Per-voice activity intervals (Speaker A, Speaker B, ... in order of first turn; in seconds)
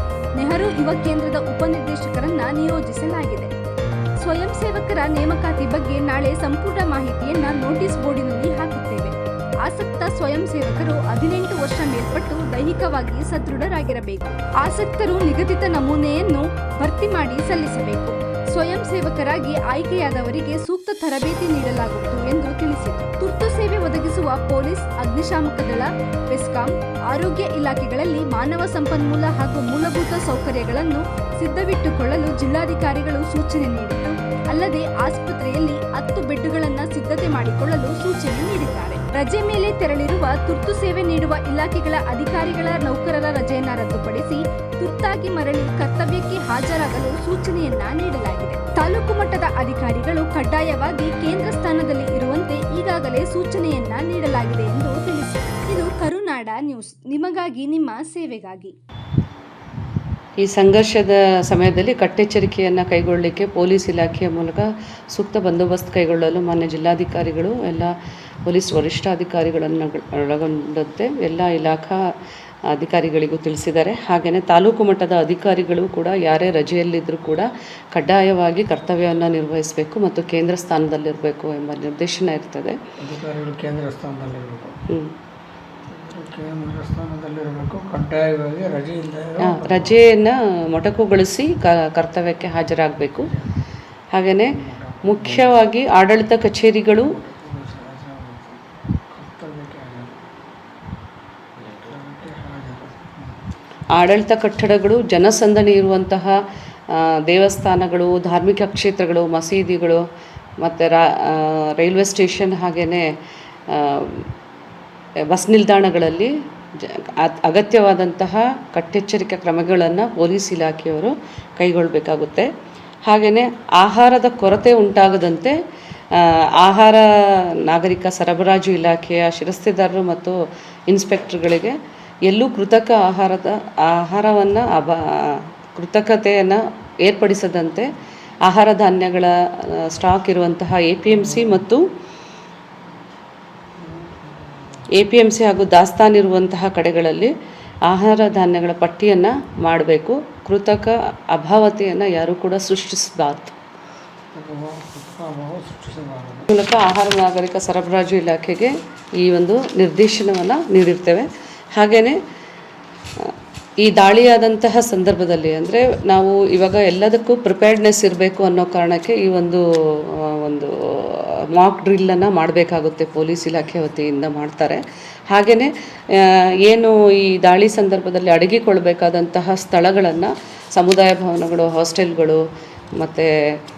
Speaker A: 0.4-3.5, 4.2-58.7
Speaker B: 60.4-67.9, 68.5-72.0, 72.7-82.8, 89.4-93.3, 94.1-94.5, 95.0-97.1, 104.0-106.4, 106.9-110.0, 110.6-113.0, 113.7-114.3, 115.3-122.5, 123.1-125.6, 126.1-130.4, 130.9-137.9, 138.4-141.8, 144.9-147.3, 147.9-153.5, 156.5-162.2, 163.2-182.4, 183.0-183.3
Speaker C: 83.0-84.8, 85.9-90.0, 94.6-95.6, 97.0-98.6, 99.1-100.2, 101.6-103.4, 143.8-144.4, 154.3-156.5